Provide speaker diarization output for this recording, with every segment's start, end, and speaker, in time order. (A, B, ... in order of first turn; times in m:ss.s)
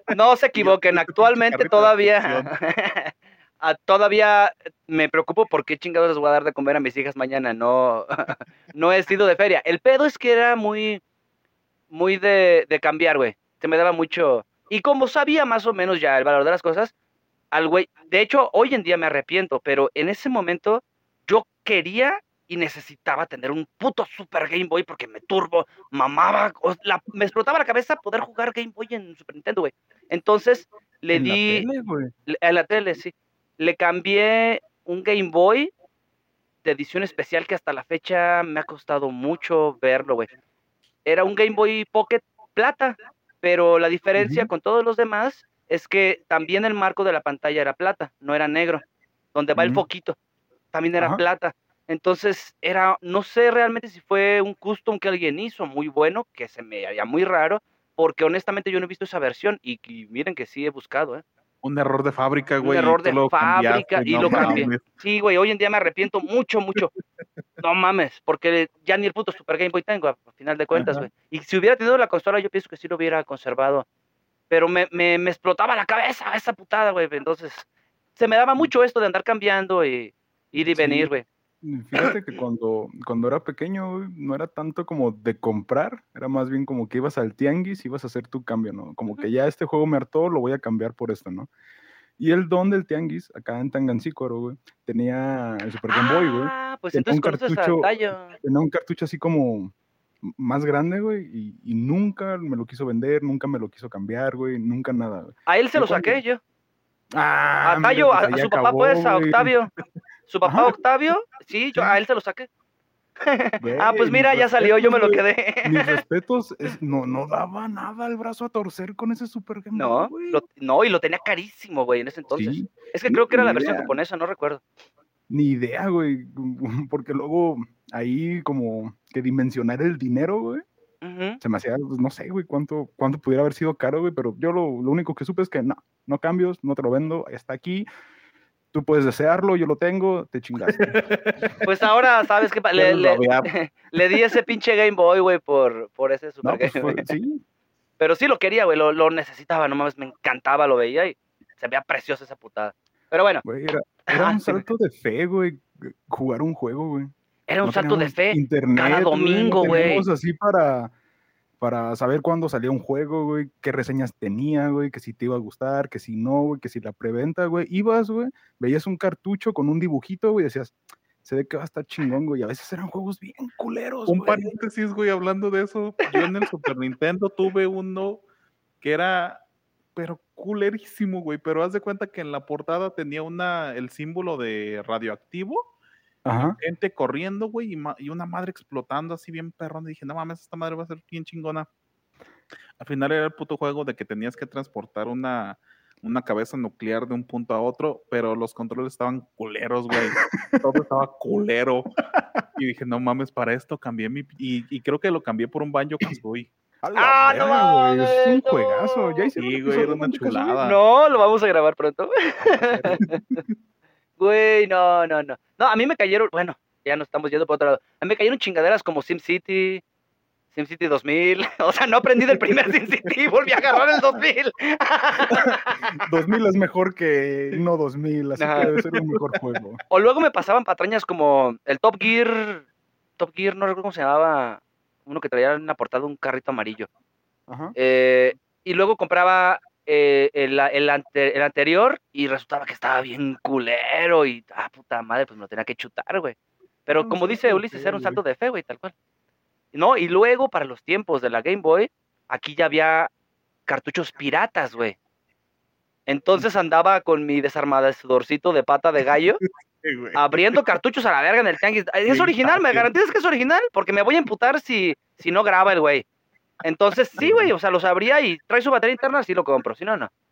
0:00.1-0:11.0 A
0:00.6-0:02.5 B
0:11.9-0:16.9 A
0:17.5-0:31.7 A
0:31.1-0:32.1 C
0:32.3-0:35.7 A
0:36.6-0:40.3 A
0:41.0-0:48.8 A
0:44.2-0:44.5 C
0:49.3-0:50.2 A
0:49.6-0:49.8 C
0:50.7-1:01.2 A
1:01.6-1:04.8 B
1:02.6-1:06.9 A
1:04.2-1:04.7 C
1:07.6-1:13.9 A
1:10.8-1:11.1 B
1:14.5-1:21.2 A
1:20.6-1:21.1 C
1:21.6-1:31.5 C
1:32.2-1:46.2 C
1:35.9-1:38.4 A
1:45.5-1:46.4 A
1:47.1-1:49.5 C
1:47.6-1:49.7 A
1:50.3-1:52.5 A
1:50.4-1:50.7 C
1:53.2-1:56.0 A
1:53.6-2:00.4 C
1:59.7-2:04.6 A
2:02.3-2:04.0 C
2:05.3-2:10.6 C
2:11.0-2:11.4 A
2:11.4-2:17.9 C
2:18.7-2:21.0 C
2:20.8-2:21.6 B
2:21.6-2:27.0 A
2:22.8-2:23.5 B
2:26.4-2:27.4 C
2:28.0-2:33.4 A
2:33.4-2:37.1 C
2:34.1-2:34.7 A
2:37.5-2:40.1 A
2:37.6-2:40.9 C
2:41.6-2:54.5 C
2:54.1-2:58.2 B
2:58.8-2:59.4 B
3:00.0-3:05.6 B
3:06.3-3:06.6 C
3:06.4-3:11.7 B
3:12.8-3:21.9 B
3:20.3-3:20.6 C
3:22.6-3:26.5 B
3:26.8-3:30.6 C
3:27.0-3:29.9 A
3:29.4-3:30.8 B
3:30.6-3:33.2 A
3:32.4-3:33.0 C
3:34.2-3:39.8 A
3:40.5-3:45.9 A
3:46.0-3:49.8 C
3:48.4-3:48.7 A
3:48.6-3:49.4 B
3:49.9-3:52.7 A
3:53.2-3:56.9 A
3:57.5-3:57.8 C
3:57.8-4:08.9 A
4:07.0-4:08.2 C
4:09.7-4:13.1 A
4:13.7-4:15.0 A
4:16.1-4:19.4 A
4:19.4-4:20.6 B
4:20.2-4:26.0 A
4:22.1-4:22.9 B
4:26.6-4:30.1 A
4:27.2-4:27.5 C